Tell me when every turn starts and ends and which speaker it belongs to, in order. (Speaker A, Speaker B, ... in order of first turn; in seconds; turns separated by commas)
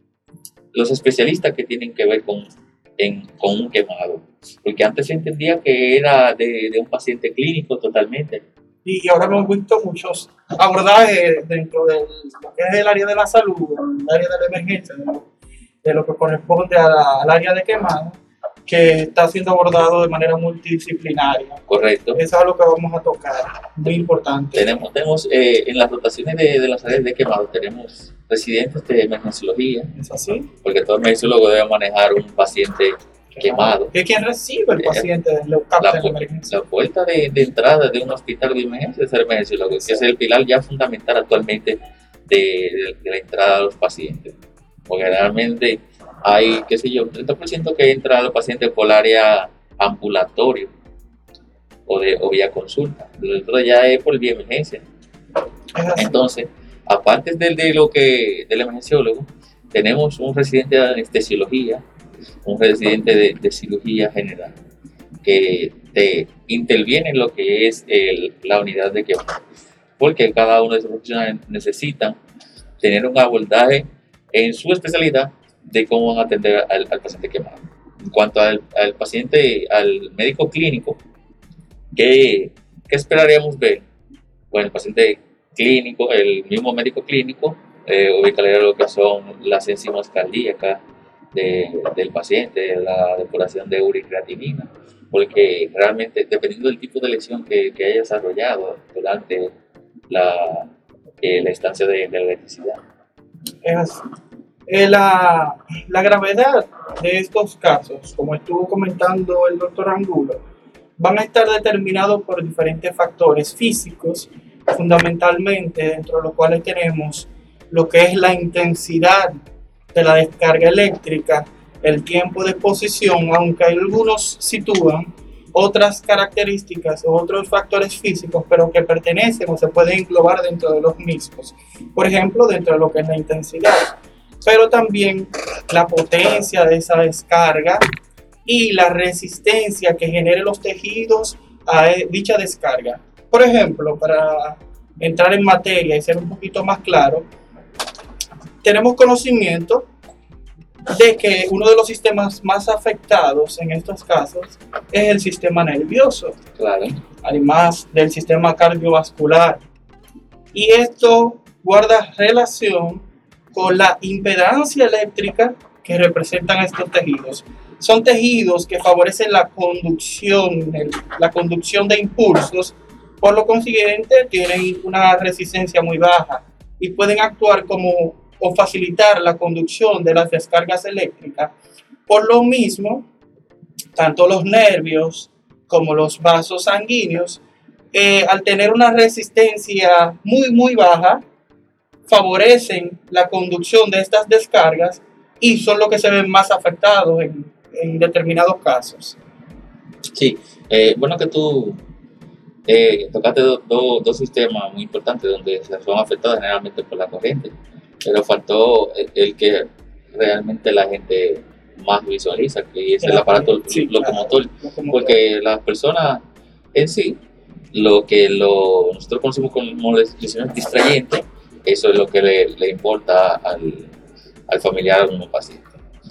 Speaker A: 0.7-2.5, Speaker A: 3.0-8.4, Speaker B: 8.8-15.2, Speaker B: 15.8-21.6, Speaker A: 21.7-22.2, Speaker B: 22.1-24.8, Speaker A: 24.5-29.9, Speaker B: 29.9-30.5, Speaker A: 30.6-33.9, Speaker B: 33.3-36.5, Speaker A: 34.8-35.1, Speaker A: 35.8-44.4, Speaker A: 44.9-50.7, Speaker A: 51.9-54.8, Speaker B: 55.7-56.2, Speaker A: 56.0-61.8, Speaker A: 62.4-64.5, Speaker A: 65.2-69.4, Speaker A: 70.0-72.2, Speaker A: 72.8-81.0, Speaker A: 81.9-83.8, Speaker A: 84.5-90.8, Speaker A: 91.3-99.5, Speaker A: 100.1-100.7, Speaker A: 101.2-102.8, Speaker B: 103.6-104.0, Speaker B: 104.7-110.4, Speaker B: 111.0-119.4, Speaker B: 119.9-137.8, Speaker B: 138.4-147.2, Speaker B: 148.6-149.8, Speaker B: 150.9-156.3, Speaker A: 156.6-157.0, Speaker B: 157.2-159.6, Speaker B: 160.5-181.5, Speaker B: 182.1-183.1, Speaker B: 183.9-187.4, Speaker B: 187.9-191.2, Speaker B: 192.1-199.2, Speaker A: 200.1-201.8, Speaker A: 202.7-216.2, Speaker B: 213.0-215.2, Speaker A: 216.7-217.2, Speaker A: 217.7-223.9, Speaker A: 224.5-225.8